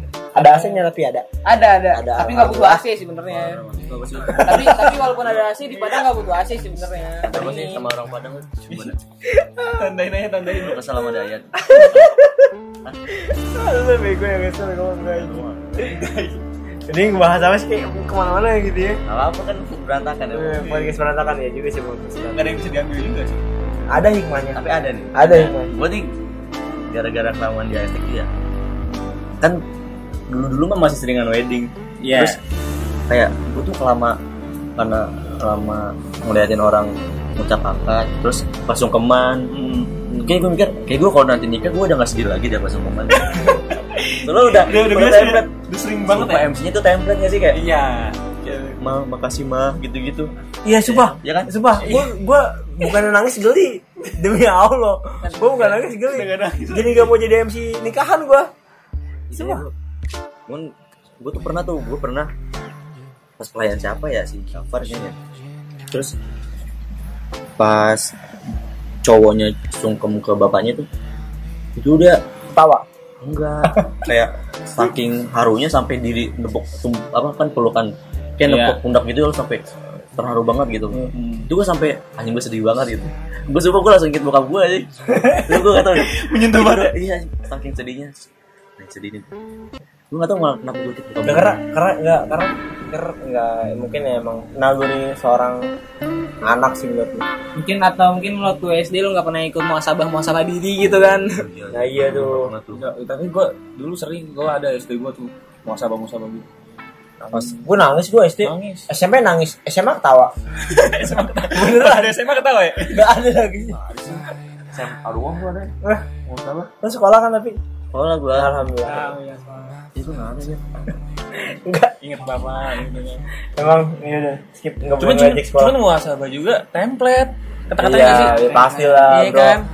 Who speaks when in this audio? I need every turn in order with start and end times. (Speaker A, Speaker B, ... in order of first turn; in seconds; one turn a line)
Speaker A: 0.3-1.3
Speaker B: 0.3-0.8
Speaker B: 1.4-3.6
Speaker A: 1.9-2.8
Speaker C: 3.3-4.9
Speaker A: 4.3-4.9
Speaker B: 4.4-7.8
Speaker C: 7.2-9.0
Speaker D: 8.7-9.0
Speaker A: 9.3-9.9
Speaker D: 9.6-10.8
Speaker C: 10.4-12.1
Speaker A: 11.7-12.4
Speaker A: 13.1-15.4
Speaker C: 15.1-16.0
Speaker D: 15.8-16.4
Speaker A: 16.9-19.0
Speaker C: 19.1-20.7
Speaker A: 20.3-22.6
Speaker D: 20.6-21.0
Speaker D: 22.3-23.4
Speaker A: 23.9-24.6
Speaker C: 24.5-26.1
Speaker A: 25.1-25.7
Speaker C: 26.8-28.3
Speaker C: 30.3-32.4
Speaker D: 32.0-32.4
Speaker C: 33.1-34.1
Speaker C: 34.8-39.5
Speaker D: 39.5-40.0
Speaker C: 40.1-43.4
Speaker D: 43.2-46.5
Speaker C: 44.2-45.5
Speaker C: 46.0-47.6
Speaker D: 47.5-48.8
Speaker C: 48.8-50.3
Speaker A: 50.6-58.5
Speaker C: 50.8-51.5
Speaker D: 51.8-52.1
Speaker D: 55.3-57.1
Speaker C: 59.3-59.7
Speaker A: 59.3-59.6
Speaker C: 60.5-62.3
Speaker C: 63.4-65.2
Speaker C: 65.9-66.1
Speaker C: 67.6-68.1
Speaker C: 69.0-70.8
Speaker C: 71.8-72.2
Speaker A: 72.5-72.8
Speaker C: 73.2-79.6
Speaker D: 78.4-78.8
Speaker C: 80.2-88.3
Speaker D: 81.1-81.5
Speaker D: 85.9-86.9
Speaker C: 88.8-89.3
Speaker C: 90.1-91.5
Speaker A: 91.2-95.7
Speaker A: 96.4-97.2
Speaker B: 97.5-101.3
Speaker C: 100.8-102.8
Speaker A: 101.7-102.5
Speaker D: 102.7-106.5
Speaker D: 107.3-107.6
Speaker A: 107.3-110.3
Speaker D: 108.4-108.9
Speaker D: 110.6-113.0
Speaker A: 111.3-112.2
Speaker A: 112.8-113.8
Speaker C: 113.7-114.2
Speaker C: 114.7-115.7
Speaker A: 115.8-117.6
Speaker C: 117.9-118.5
Speaker A: 118.3-119.1
Speaker B: 118.8-119.7
Speaker C: 119.9-120.6
Speaker A: 121.3-121.9
Speaker D: 122.0-123.2
Speaker A: 123.5-125.8
Speaker D: 125.0-129.4
Speaker A: 127.8-129.6
Speaker B: 127.9-129.6